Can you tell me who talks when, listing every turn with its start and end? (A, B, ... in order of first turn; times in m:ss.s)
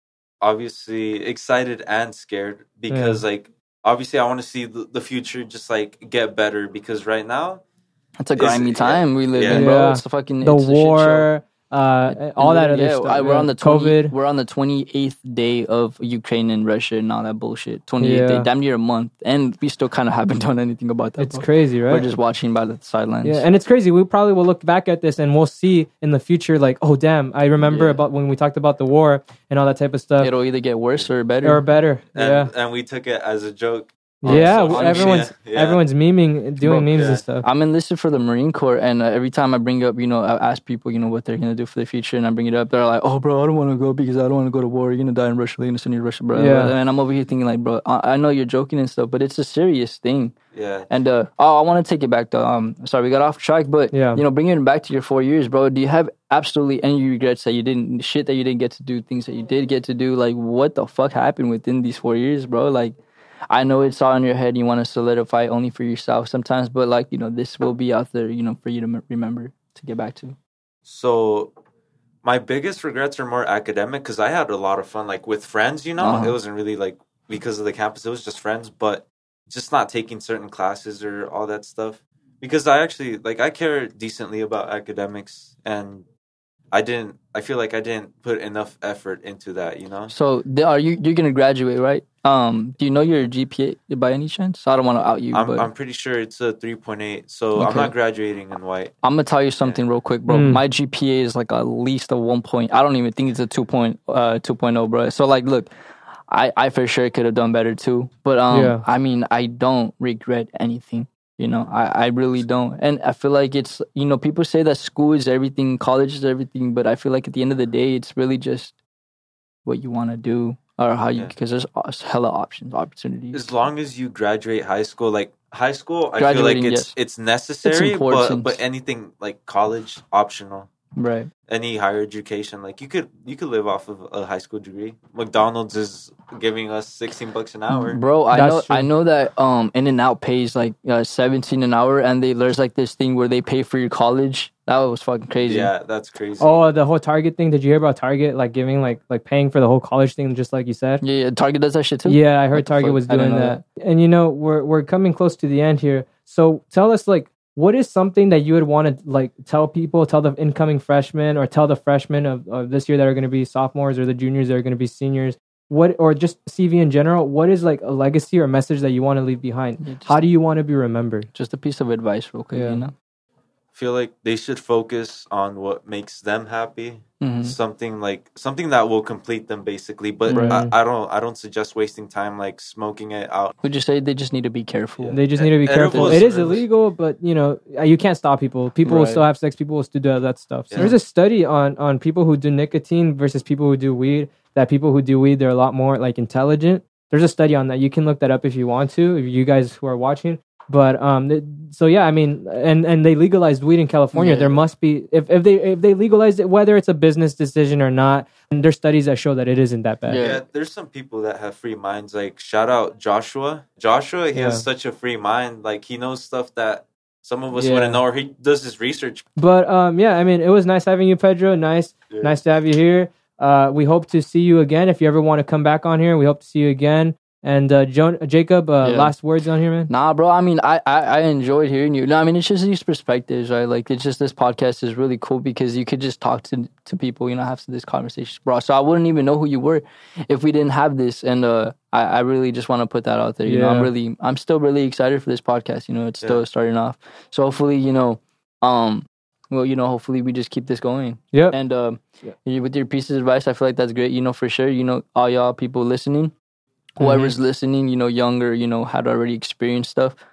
0:00.4-0:07.6 A
0:02.9-0:03.2 B
0:08.2-0:11.3 C
0:08.4-0:09.7 A
0:09.5-0:14.1 B
0:12.1-0:23.5 C
0:18.0-0:18.5 B
0:21.2-0:22.1 B
0:23.2-0:30.3 B
0:27.6-0:28.0 C
0:30.2-0:31.6 C
0:31.4-0:32.5 B
0:32.2-0:35.8 A
0:34.2-0:37.4 B
0:34.2-0:35.2 C
0:36.6-0:50.4 C
0:36.9-0:37.2 A
0:46.4-0:46.8 B
0:50.5-0:50.9 A
0:50.9-1:03.0 C
0:53.9-0:54.2 B
1:03.5-1:10.4 C
1:10.8-1:11.5 A
1:12.2-1:26.1 A
1:16.0-1:16.4 C
1:26.7-1:30.1 A
1:30.1-1:35.7 C
1:35.3-1:39.0 A
1:37.6-1:37.9 C
1:39.0-1:45.7 C
1:40.3-1:40.6 B
1:46.3-1:58.8 C
1:48.5-1:48.8 B
1:59.6-2:03.5 C
2:03.3-2:10.7 A
2:06.2-2:07.0 C
2:07.6-2:08.6 C
2:11.0-2:11.3 C
2:11.5-2:18.0 A
2:17.7-2:25.7 C
2:18.3-2:18.9 B
2:25.4-2:26.6 A
2:26.4-2:31.0 B
2:31.0-2:33.6 C
2:32.1-2:51.3 B
2:49.8-2:50.3 C
2:51.3-2:52.9 C
2:52.5-2:52.8 B
2:53.7-3:03.5 A
2:57.2-2:57.6 C
3:00.3-3:00.6 C
3:00.3-3:00.7 B
3:03.6-3:05.2 C
3:05.0-3:06.6 A
3:05.1-3:30.2 B
3:05.9-3:06.4 C
3:08.8-3:09.2 C
3:10.7-3:11.0 A
3:24.1-3:24.6 C
3:30.1-3:30.4 C
3:30.2-3:39.3 A
3:34.3-3:34.7 B
3:37.5-3:38.0 B
3:39.4-3:49.9 B
3:42.1-3:42.4 A
3:48.8-3:49.2 C
3:49.9-4:16.3 C
4:03.4-4:03.9 B
4:17.0-4:20.2 C
4:17.0-4:17.4 B